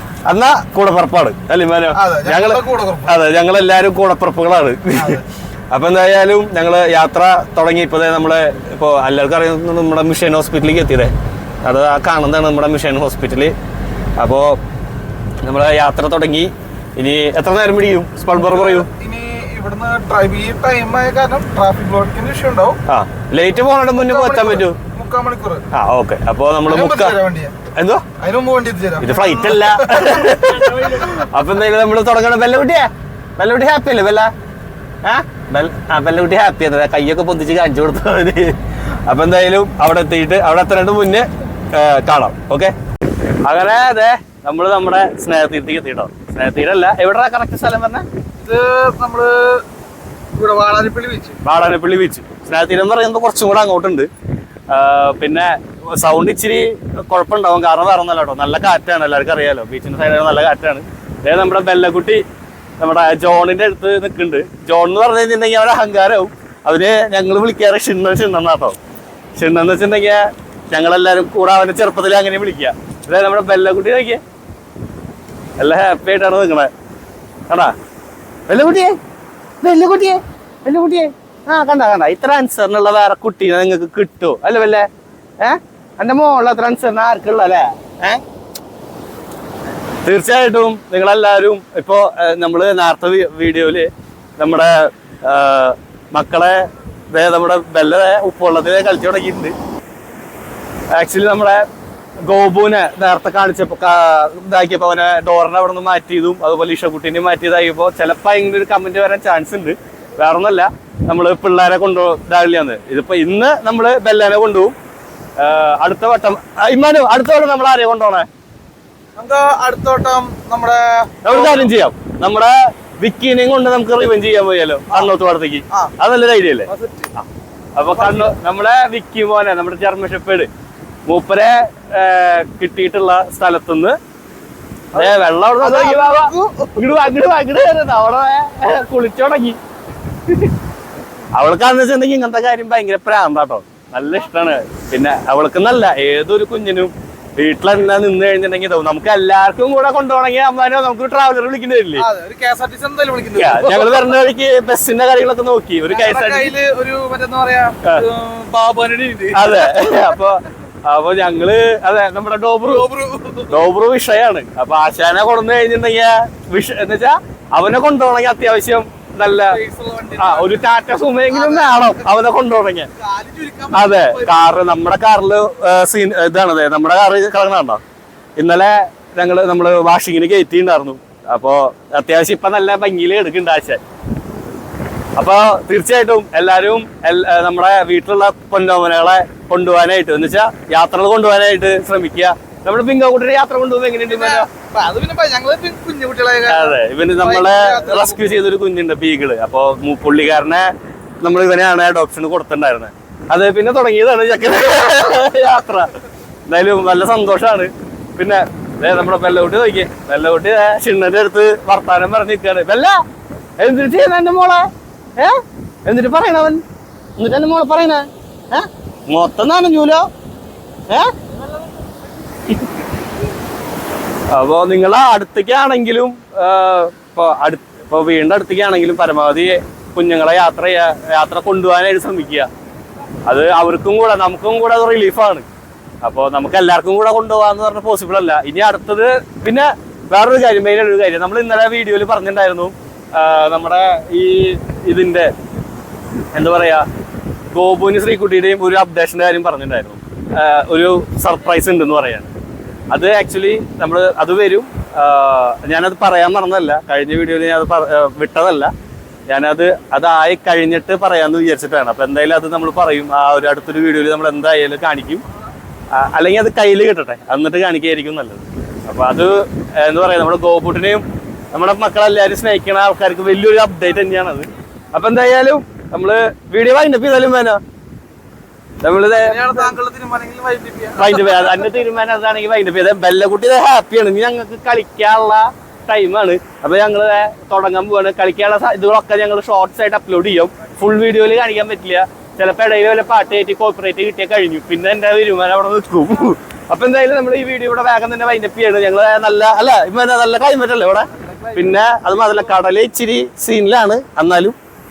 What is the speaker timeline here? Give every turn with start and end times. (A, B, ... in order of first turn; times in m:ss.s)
0:00.2-0:13.5 A
0:01.9-0:03.1 B
0:05.0-0:05.2 B
0:14.2-0:14.6 A
0:15.4-0:18.9 A
0:18.3-0:22.8 B
0:22.9-0:24.8 A
0:24.0-0:25.6 B
0:25.7-0:27.2 A
0:26.7-0:27.5 B
0:27.7-0:28.1 A
0:28.2-0:30.9 B
0:29.0-0:34.3 A
0:35.0-0:42.7 A
0:43.4-0:48.0 A
0:48.4-0:49.6 B
0:50.3-0:51.4 B
0:51.4-0:54.1 A
0:54.7-1:02.2 A
1:02.8-1:08.8 A
1:09.4-1:14.2 A
1:15.6-1:16.7 A
1:18.5-1:19.0 A
1:19.6-1:24.9 A
1:25.4-1:28.2 A
1:30.0-1:39.5 A
1:40.9-1:41.6 A
1:42.2-1:54.7 A
1:55.4-1:58.3 A
1:59.2-2:01.7 B
2:01.2-2:10.5 A
2:06.7-2:07.1 B
2:08.0-2:08.4 B
2:11.1-2:14.0 A
2:14.9-2:19.6 A
2:14.9-2:16.8 B
2:21.3-2:32.1 A
2:32.0-2:34.0 B
2:33.4-2:36.5 A
2:35.9-2:39.7 B
2:39.3-2:52.9 A
2:42.7-2:43.5 B
2:49.6-2:50.5 B
2:53.1-2:54.3 B
2:53.7-2:57.8 A
2:58.4-3:03.8 A
3:05.2-3:14.5 A
3:14.1-3:18.3 B
3:16.4-3:25.9 A
3:26.5-3:33.0 A
3:33.6-3:36.6 A
3:37.2-3:40.0 A
3:44.3-3:52.5 A
3:53.3-3:55.5 A
3:56.0-4:05.3 A
4:06.3-4:06.9 A
4:07.5-4:12.3 A
4:12.9-4:18.7 A
4:19.3-4:25.2 A
4:25.9-4:37.6 A
4:38.8-4:39.7 A
4:39.2-4:41.5 B
4:40.9-5:04.6 A